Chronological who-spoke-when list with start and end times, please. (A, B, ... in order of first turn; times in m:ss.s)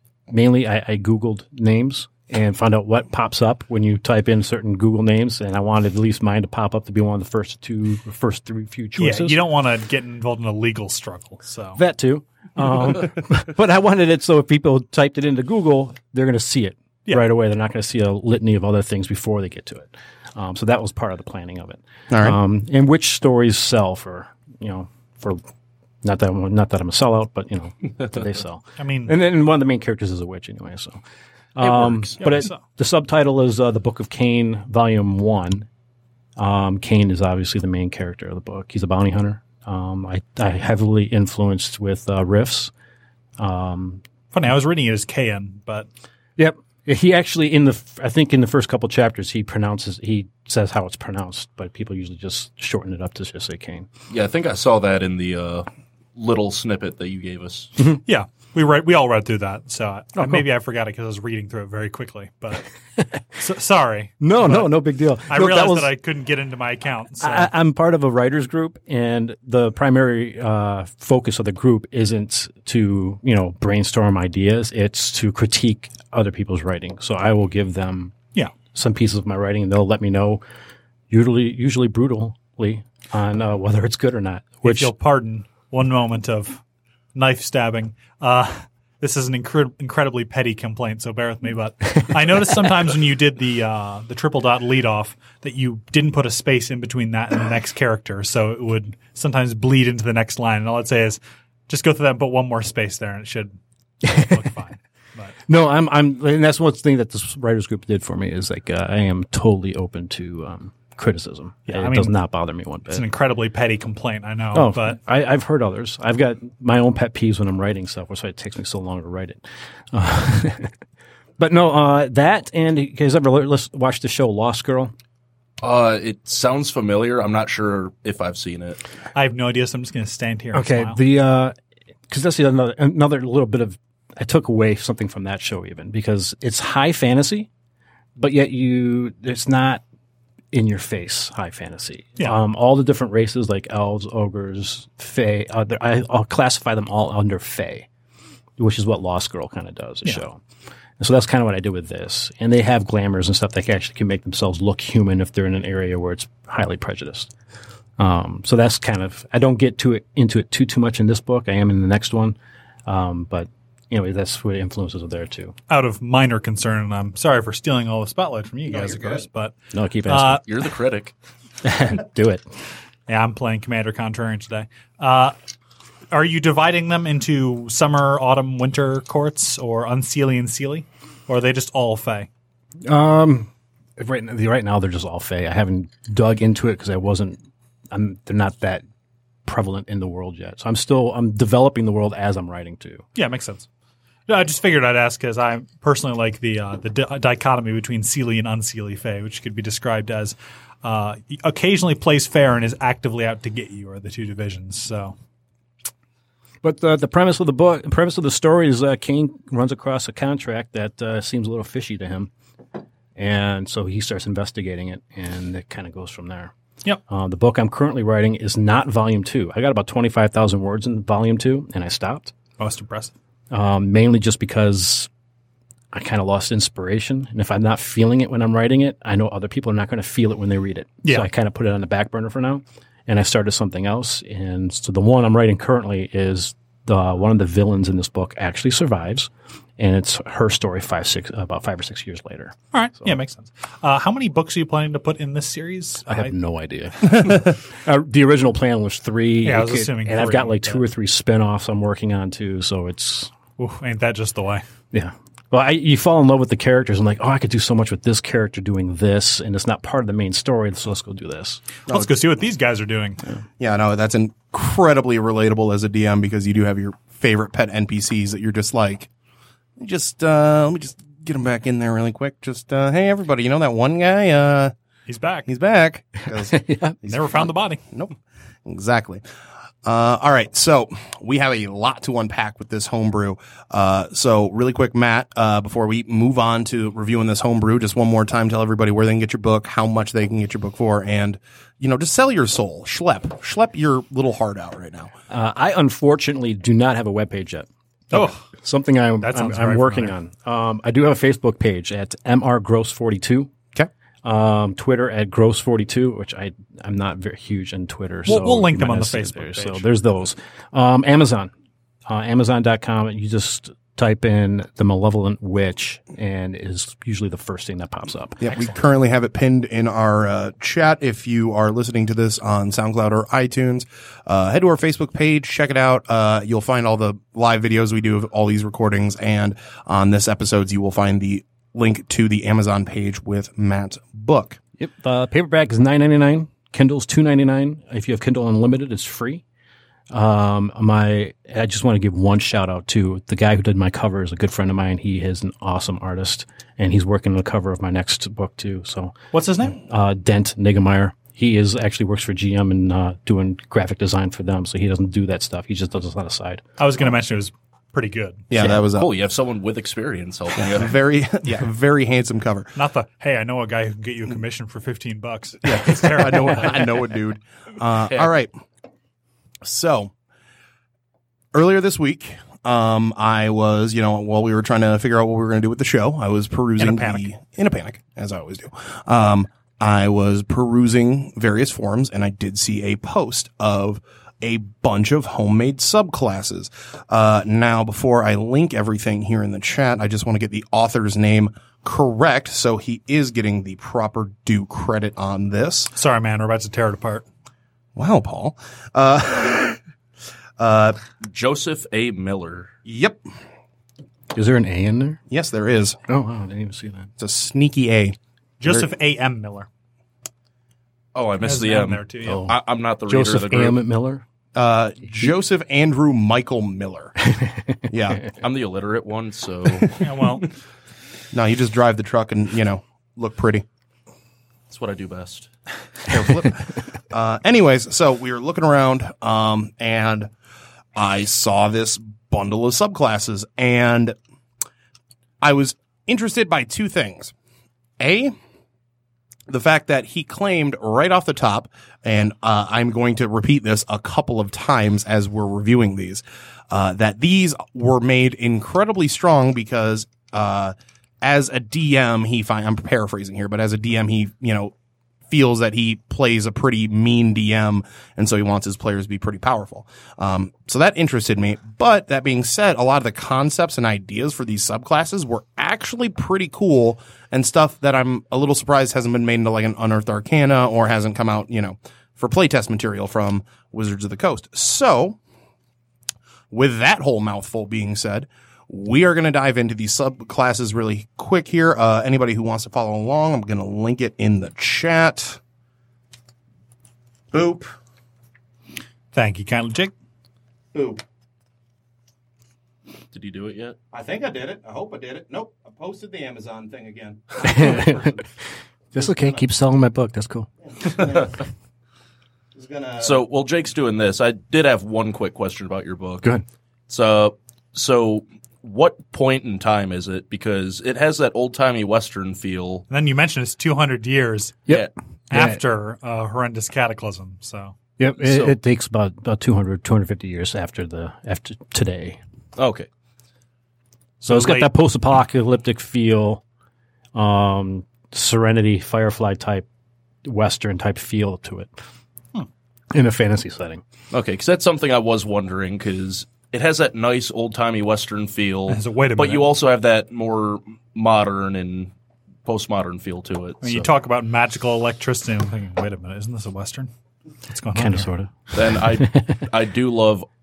0:00.3-0:09.4 A
0:09.0-0:11.8 B
0:11.8-0:25.4 A
0:22.1-0:22.4 C
0:26.0-0:31.0 A
0:28.8-0:29.1 B
0:31.6-0:35.7 A
0:31.6-0:32.2 D
0:32.2-0:32.6 B
0:36.4-0:42.7 A
0:43.4-0:44.0 A
0:44.3-0:45.9 B
0:46.4-0:53.9 A
0:54.1-0:57.8 D
0:58.0-1:02.6 B
1:00.2-1:00.4 A
1:03.4-1:07.5 B
1:04.2-1:05.9 A
1:07.2-1:18.2 A
1:18.7-1:20.4 A
1:21.1-1:24.9 A
1:24.6-1:26.6 B
1:27.1-1:45.3 B
1:44.0-1:44.4 A
1:45.5-1:53.0 A
1:51.7-1:52.1 B
1:52.9-1:55.0 B
1:54.5-2:00.7 A
2:01.4-2:04.9 A
2:05.6-2:08.8 D
2:09.1-2:11.0 B
2:10.5-2:11.5 A
2:12.1-2:17.5 A
2:18.2-2:19.8 A
2:20.5-2:27.9 A
2:28.6-2:30.4 A
2:31.0-2:37.3 A
2:38.0-2:45.5 A
2:45.7-2:49.6 B
2:48.7-2:49.2 C
2:49.7-2:50.5 A
2:50.1-2:50.4 B
2:50.5-2:51.1 D
2:51.6-2:52.4 A
2:53.1-2:55.3 B
2:56.1-3:02.3 B
3:02.8-3:07.4 A
3:07.9-3:08.8 A
3:09.4-3:13.0 A
3:13.1-3:13.6 B
3:14.3-3:25.1 B
3:26.6-3:32.3 A
3:33.2-3:36.5 A
3:37.1-3:42.3 A
3:42.6-3:43.1 B
3:43.5-3:45.1 A
3:45.9-4:03.2 A
3:51.0-3:51.3 B
4:02.7-4:06.3 B
4:06.1-4:13.3 A
4:09.4-4:10.8 B
4:13.6-4:14.6 B
4:14.9-4:21.6 A
4:21.9-4:23.2 B
4:23.6-4:29.1 C
4:29.8-4:34.7 C
4:35.1-4:35.5 B
4:35.5-4:37.3 C
4:36.4-4:37.0 A
4:37.0-4:37.8 B
4:37.9-4:39.2 C
4:39.8-4:55.1 C
4:55.3-5:03.5 A
4:58.1-4:58.4 B
4:59.2-5:00.1 B
5:04.2-5:11.5 A
5:08.2-5:09.8 B
5:12.0-5:18.4 A
5:18.4-5:34.6 C
5:18.4-5:18.7 B
5:34.8-5:39.4 A
5:40.1-5:49.2 A
5:49.3-5:49.8 B
5:49.7-5:56.6 A
5:56.8-5:58.5 B
5:58.5-5:59.1 C
5:58.8-6:00.9 D
6:00.6-6:02.7 C
6:02.7-6:06.8 B
6:05.7-6:08.5 C
6:09.6-6:10.1 C
6:11.5-6:35.9 C
6:16.8-6:17.3 B
6:35.9-6:37.2 B
6:37.9-6:39.8 C
6:40.6-6:41.0 C
6:41.2-6:42.7 D
6:42.8-6:43.2 C
6:44.3-6:45.2 A
6:45.3-6:46.0 C
6:46.1-6:47.1 A
6:47.2-6:48.9 C
6:48.6-6:49.7 B
6:51.1-6:53.8 D
6:51.4-6:52.5 B
6:52.2-6:54.2 A
6:54.5-6:57.2 C
6:57.3-6:57.6 A
6:57.9-6:58.2 C
6:58.4-7:00.0 D
7:00.0-7:00.5 B
7:01.3-7:03.6 C
7:04.7-7:05.5 D
7:06.1-7:10.3 C
7:10.9-7:14.2 C
7:15.4-7:17.3 C
7:18.0-7:18.3 C
7:19.5-7:34.7 C
7:35.3-7:55.2 C
7:56.5-8:05.4 C
8:07.3-8:07.7 C
8:09.1-8:09.9 B
8:10.7-8:11.0 C
8:13.1-8:13.8 D
8:13.9-8:18.2 C
8:17.4-8:18.2 A
8:18.9-8:20.5 A
8:20.6-8:21.4 C
8:22.5-8:23.2 C
8:23.0-8:26.3 D
8:26.9-8:32.8 D
8:32.9-8:34.6 B
8:34.7-8:35.6 A
8:35.3-8:37.7 B
8:38.0-8:42.2 A
8:42.6-8:42.9 D
8:44.2-8:44.7 B
8:44.2-8:46.4 A
8:47.1-8:49.6 A
8:50.2-8:51.7 A
8:52.9-8:53.8 A
8:54.1-9:01.9 D
8:58.7-8:59.5 B
9:02.4-9:03.9 D
9:03.6-9:06.9 B
9:07.5-9:08.1 B
9:07.7-9:09.4 A
9:08.5-9:10.3 D